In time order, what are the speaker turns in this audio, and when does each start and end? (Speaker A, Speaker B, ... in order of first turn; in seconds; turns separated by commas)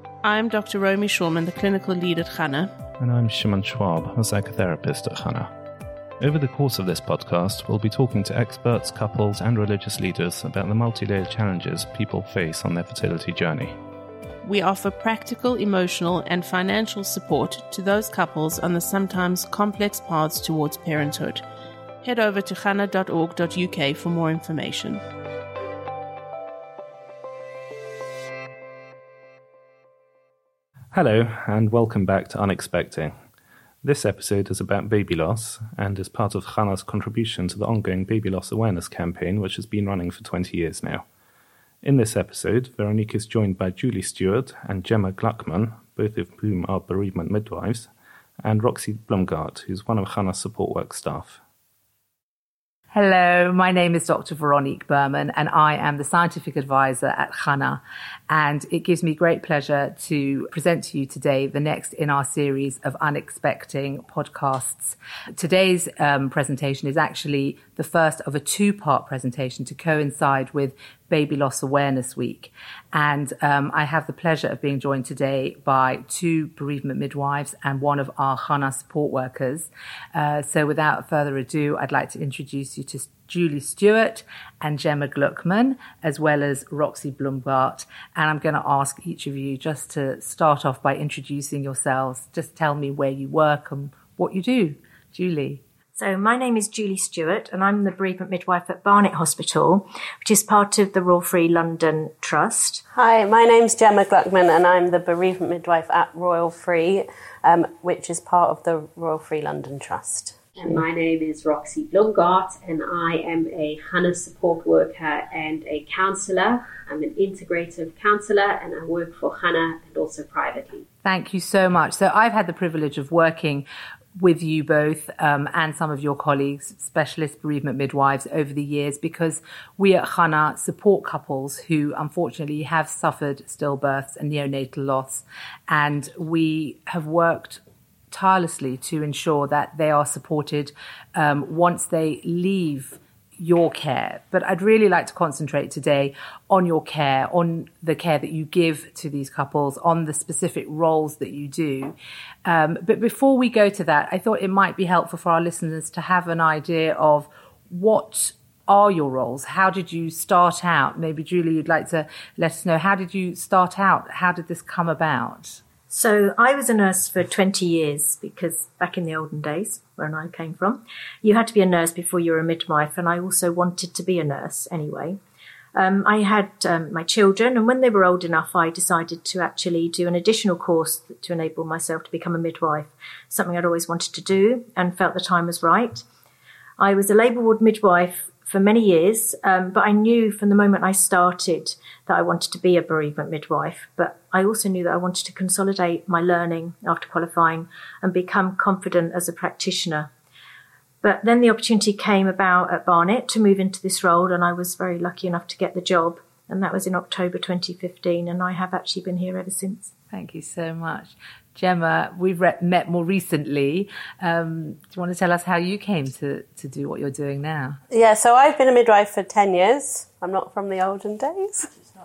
Speaker A: 0.2-2.7, Speaker B: 3.0-5.5, Speaker B: 6.2-13.8, Speaker A: 14.4-21.4, Speaker A: 22.0-25.0, Speaker B: 30.9-33.1, Speaker B: 33.8-41.1, Speaker B: 41.8-47.9, Speaker B: 48.4-51.4, Speaker C: 52.9-95.6, Speaker D: 96.0-102.8, Speaker E: 102.9-110.8, Speaker F: 110.6-120.9, Speaker C: 121.0-123.7, Speaker C: 124.2-165.6, Speaker D: 165.9-175.2, Speaker D: 175.8-186.1, Speaker D: 186.8-200.1, Speaker D: 201.0-209.9, Speaker C: 210.1-217.8, Speaker E: 217.9-221.8